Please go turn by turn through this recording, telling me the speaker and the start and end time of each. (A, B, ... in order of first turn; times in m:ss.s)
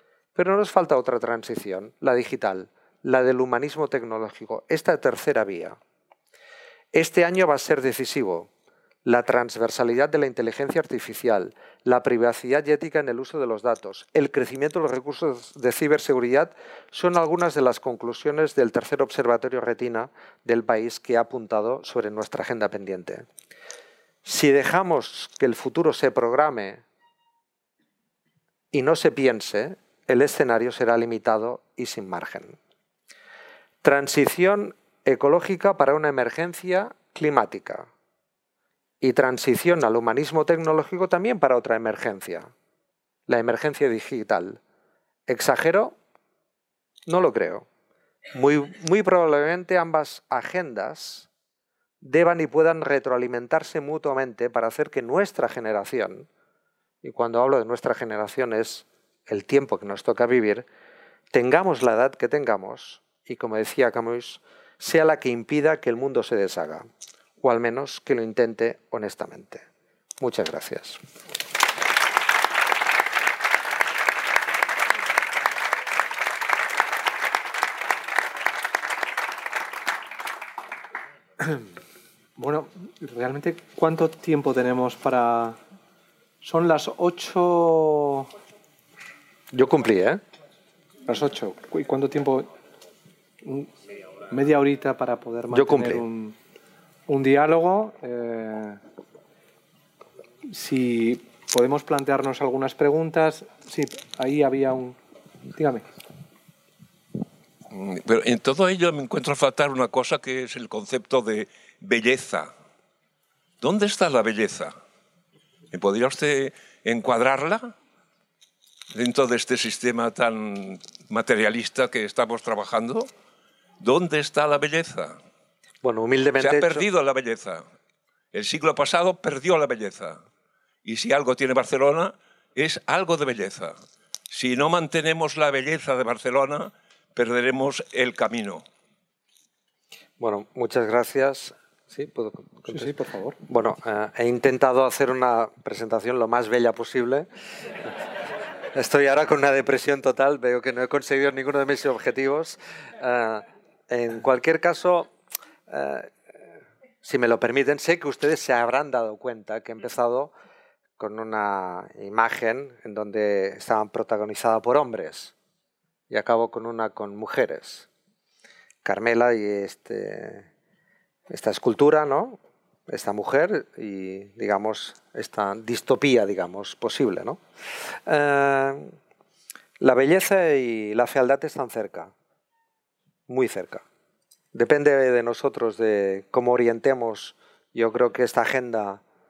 0:00.4-0:05.8 A
0:06.9-0:08.5 A
0:09.0-0:23.3 A
0:24.2-0:26.8 A
0:28.7-0:32.6 A
0:33.8-0:37.9 A
0:39.0-0:42.5 A
0:43.3-0:44.6 A
0:45.3-0:46.0 A
0:47.1-0:47.7 A
0:48.3-0:51.3 A
0:52.0-0:56.3 A
0:57.0-1:00.7 A
1:01.3-1:06.9 A
1:07.4-1:09.6 A
1:10.2-1:11.0 A
1:22.4-1:25.6 B
1:26.4-1:28.3 B
1:29.5-1:30.2 A
1:31.1-1:32.5 B
1:33.4-1:33.7 B
1:34.3-1:36.4 B
1:35.5-1:36.0 A
1:37.1-1:38.8 B
1:40.5-1:45.0 B
1:45.5-1:45.8 B
1:47.7-1:52.5 C
1:53.6-1:54.8 C
1:55.7-1:57.7 C
1:58.9-2:03.1 C
2:03.8-2:05.2 C
2:05.8-2:06.8 A
2:06.4-2:07.6 C
2:08.3-2:10.2 C
2:10.8-2:13.8 C
2:14.3-2:18.6 C
2:20.2-2:22.9 A
2:22.7-2:23.4 B
2:23.4-2:27.3 A
2:28.7-2:35.1 A
2:35.7-2:36.1 A
2:37.0-2:40.3 A
2:41.0-2:45.3 A
2:46.1-2:47.9 A
2:48.8-2:50.5 A
2:51.3-2:52.4 A
2:52.9-2:57.4 A
2:58.1-2:58.9 A
2:59.8-3:02.1 A
3:03.3-3:03.8 A
3:04.5-3:09.0 A